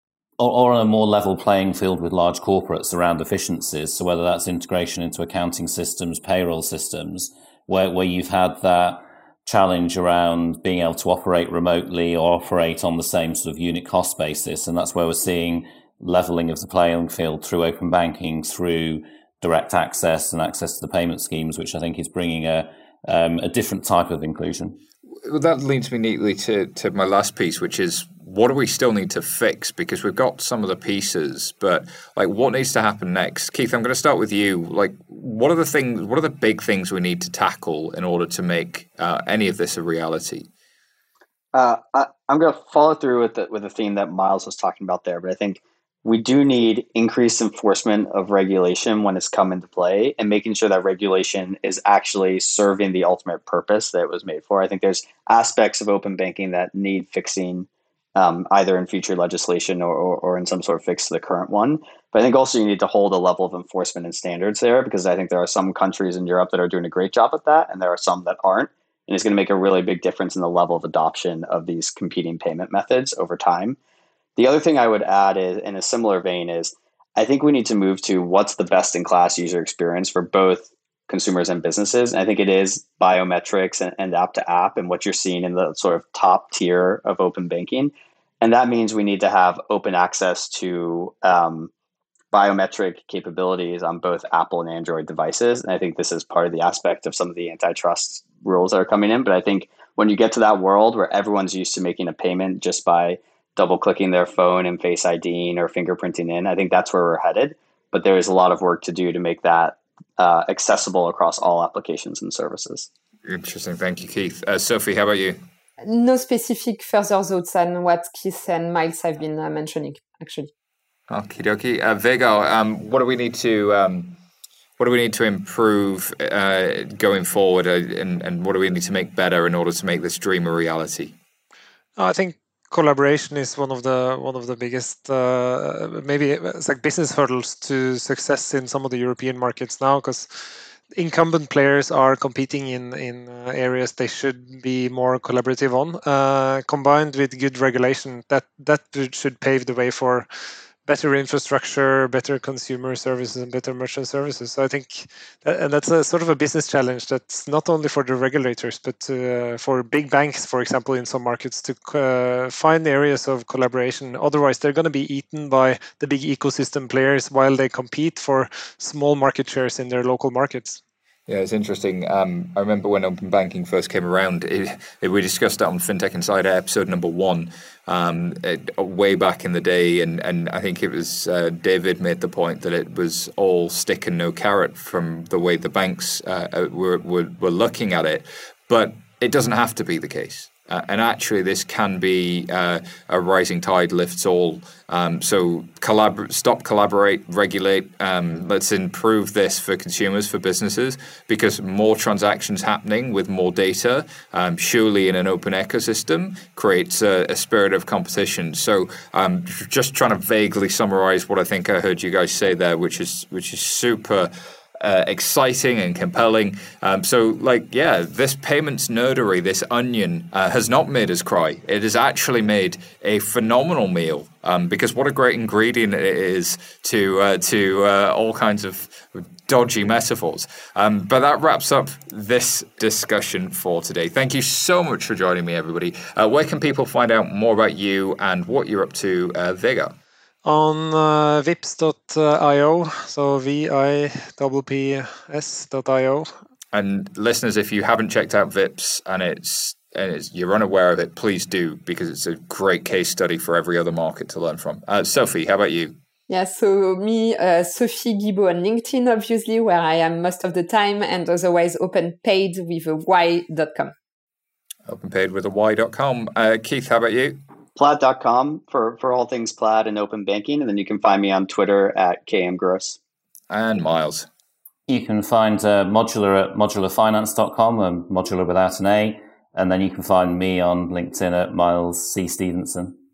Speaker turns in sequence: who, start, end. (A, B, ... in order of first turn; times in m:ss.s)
0:00.4-0:24.8 A
0:25.2-0:40.5 B
0:41.5-1:13.8 C
1:14.4-1:31.7 C
1:32.3-1:52.9 C
1:53.2-1:55.4 B
1:55.8-2:00.5 D
2:01.1-2:04.2 B
2:04.8-2:11.2 B
2:12.0-2:20.4 E
2:21.0-2:30.3 E
2:30.8-2:50.8 E
2:51.3-4:00.0 B
4:00.4-4:06.3 E
4:06.7-4:16.0 B
4:16.3-4:23.9 D
4:24.9-4:27.4 B
4:27.8-4:33.0 C
4:33.5-4:34.3 B
4:34.9-4:43.0 A